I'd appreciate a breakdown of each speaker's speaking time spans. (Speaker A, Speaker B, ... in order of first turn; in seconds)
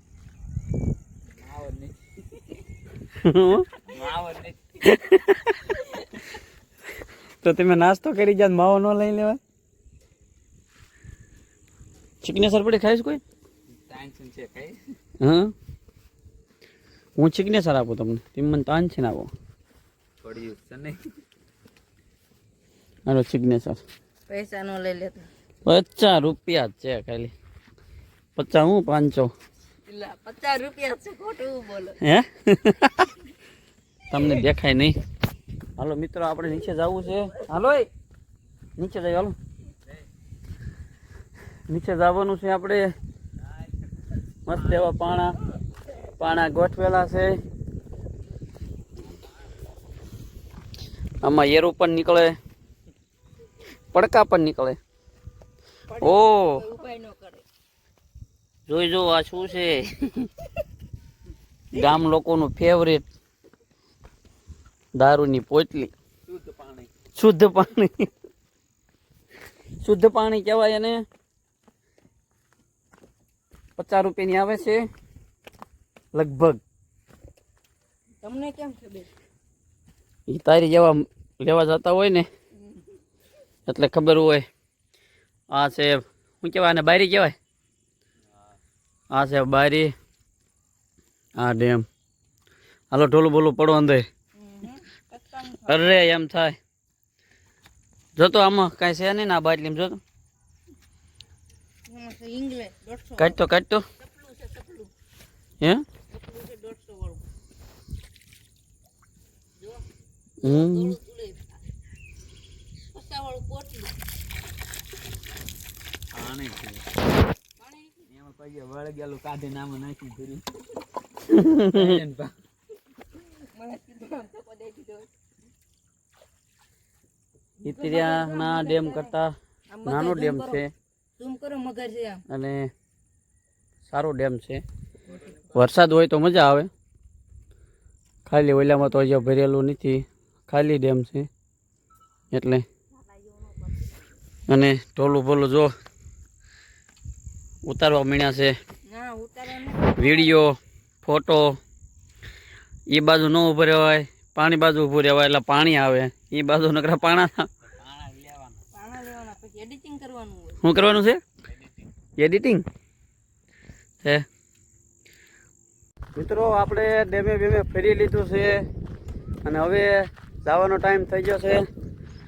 Speaker A: 1.3-2.1, 3.9-4.6, 13.8-14.8, 20.2-21.1, 66.3-66.9, 116.1-116.9, 118.1-120.5, 121.7-122.4, 157.8-158.6
Speaker B: 3.1-3.7, 4.8-5.8, 7.4-9.4, 12.2-13.2, 15.2-15.5, 17.2-19.3, 23.1-23.8, 25.6-27.3, 28.4-29.3, 32.0-33.1, 34.1-35.0, 35.8-37.9, 38.8-39.4, 41.7-42.9, 44.5-45.4, 46.2-47.4, 51.2-52.4, 53.9-54.8, 56.0-56.6, 58.7-60.3, 61.7-63.0, 65.0-65.9, 67.2-68.1, 69.8-71.0, 73.8-74.9, 76.1-76.6, 80.3-82.3, 83.7-84.5, 85.5-87.3, 89.1-89.9, 91.4-91.8, 92.9-94.1, 95.7-96.6, 98.2-100.0, 103.2-103.9, 110.4-111.0, 121.2-122.0, 127.6-130.7, 132.3-132.7, 133.9-134.6, 135.5-136.7, 138.3-141.3, 142.3-142.7, 144.5-145.7, 147.7-148.6, 150.0-151.6, 152.9-157.5, 160.6-161.2, 162.2-162.6, 166.2-168.6, 169.4-171.7
Speaker C: 24.3-25.3, 29.9-32.0, 55.9-57.5, 78.2-79.1, 94.4-96.0, 101.9-103.4, 104.0-104.9, 106.1-107.2, 109.6-109.9, 110.4-111.5, 112.9-114.0, 117.6-118.1, 123.4-125.1, 127.6-129.1, 129.7-130.6, 131.2-132.2, 143.1-143.9, 148.9-150.4, 158.7-160.6